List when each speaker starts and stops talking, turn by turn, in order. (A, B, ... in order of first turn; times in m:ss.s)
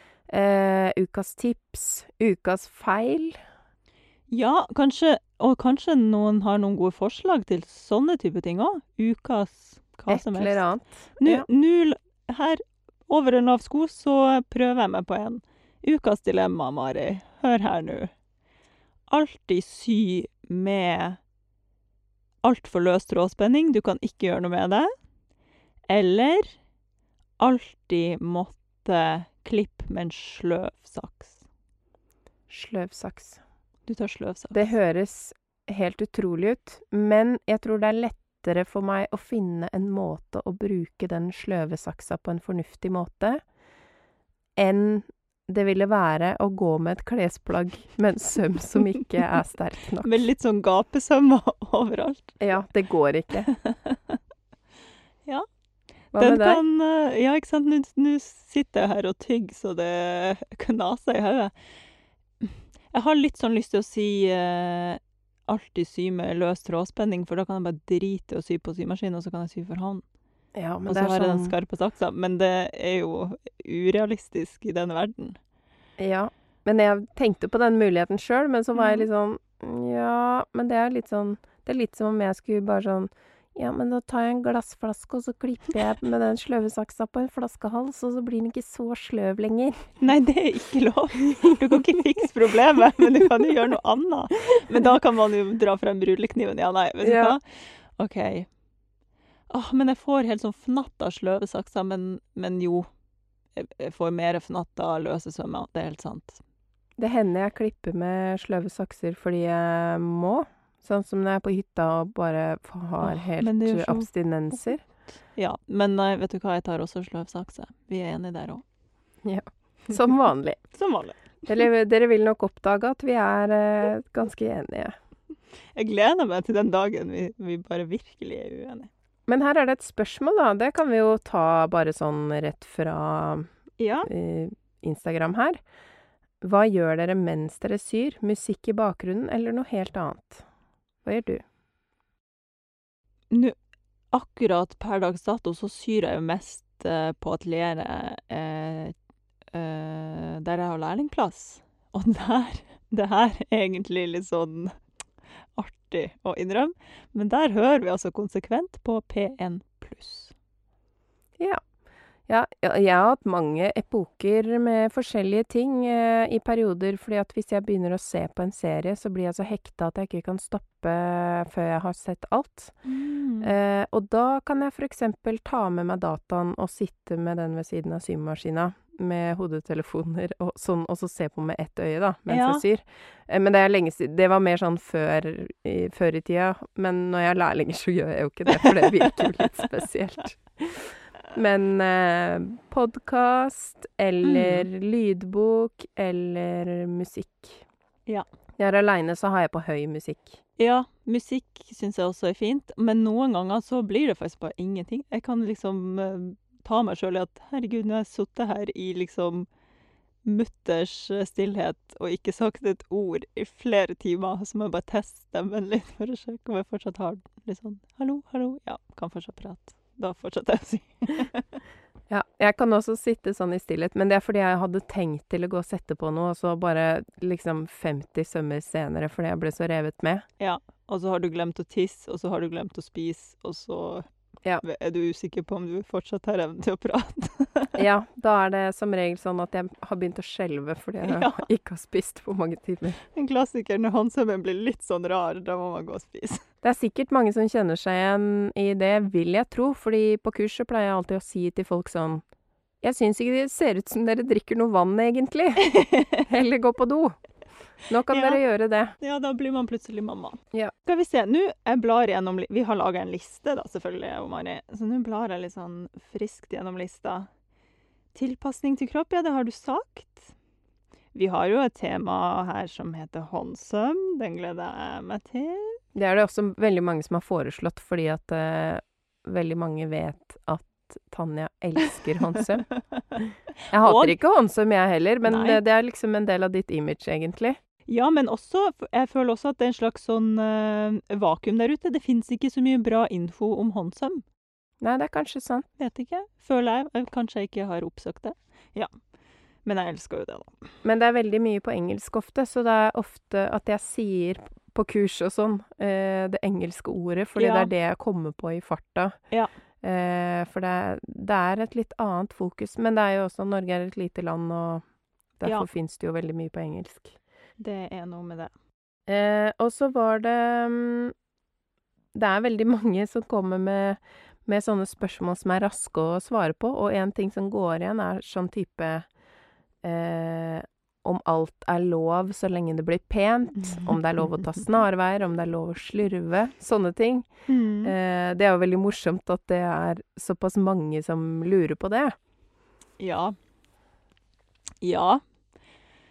0:00.3-0:03.4 A
0:04.3-0:10.6 B
0:10.1-0:11.5 A
0:11.2-0:18.1 B
0:19.1-0:21.2 B
0:22.4-0:24.9 B
0:25.9-0:26.5 B
0:27.4-0:31.4 B
0:32.5-0:33.4 A
0:33.9-0:34.7 B
0:34.5-0:43.4 A
0:44.6-0:50.1 A
0:50.0-0:52.4 B
0:52.4-0:53.5 A
0:53.5-0:54.2 B
0:56.1-0:56.6 A
0:56.2-1:01.5 B
1:02.4-1:10.0 B
1:10.5-1:11.5 A
1:10.8-1:15.4 B
1:16.0-1:29.9 A
1:18.7-1:19.0 B
1:30.0-1:38.5 B
1:37.0-1:37.3 A
1:39.5-1:42.9 B
1:43.5-1:46.4 B
1:47.0-1:54.8 A
1:53.0-1:54.1 B
1:55.3-1:58.6 B
1:59.2-2:00.6 A
2:00.7-2:01.6 B
2:01.5-2:04.9 A
2:05.8-2:08.9 B
2:09.3-2:13.5 A
2:13.8-2:14.1 B
2:14.0-2:15.6 A
2:16.4-2:20.4 A
2:21.0-2:21.4 A
2:24.1-2:28.9 B
2:29.5-2:34.8 B
2:35.5-2:40.3 B
2:42.3-2:52.7 A
2:52.8-2:53.5 B
2:53.4-3:17.6 A
3:02.3-3:02.6 B
3:14.2-3:14.7 B
3:18.6-3:20.4 A
3:20.6-3:29.5 B
3:30.2-3:41.6 B
3:42.1-3:50.2 A
3:50.4-3:54.1 B
3:54.6-3:57.8 B
3:57.8-4:03.0 A
4:01.0-4:01.4 B
4:03.1-4:06.4 B
4:06.6-4:12.2 A
4:12.8-4:15.7 A
4:15.6-4:16.2 B
4:16.2-4:17.2 A
4:17.9-4:18.9 A
4:18.1-4:18.4 B
4:19.0-4:27.3 B
4:28.1-4:30.3 B
4:31.1-4:35.8 B
4:35.9-4:42.7 A
4:43.7-4:47.6 A
4:43.7-4:44.2 B
4:45.3-4:45.6 B
4:47.9-4:54.2 B
4:54.8-4:55.7 A
4:55.8-4:58.9 B
4:59.6-5:00.6 B
5:00.8-5:09.2 A
5:07.4-5:07.7 B
5:09.8-5:14.8 A
5:15.4-5:17.2 A
5:17.6-5:18.5 B
5:19.1-5:21.1 A
5:22.1-5:29.1 A
5:29.8-5:37.3 A
5:33.6-5:34.0 B
5:37.5-5:37.9 B
5:37.8-5:42.1 A
5:43.0-5:43.3 B
5:44.8-5:45.2 B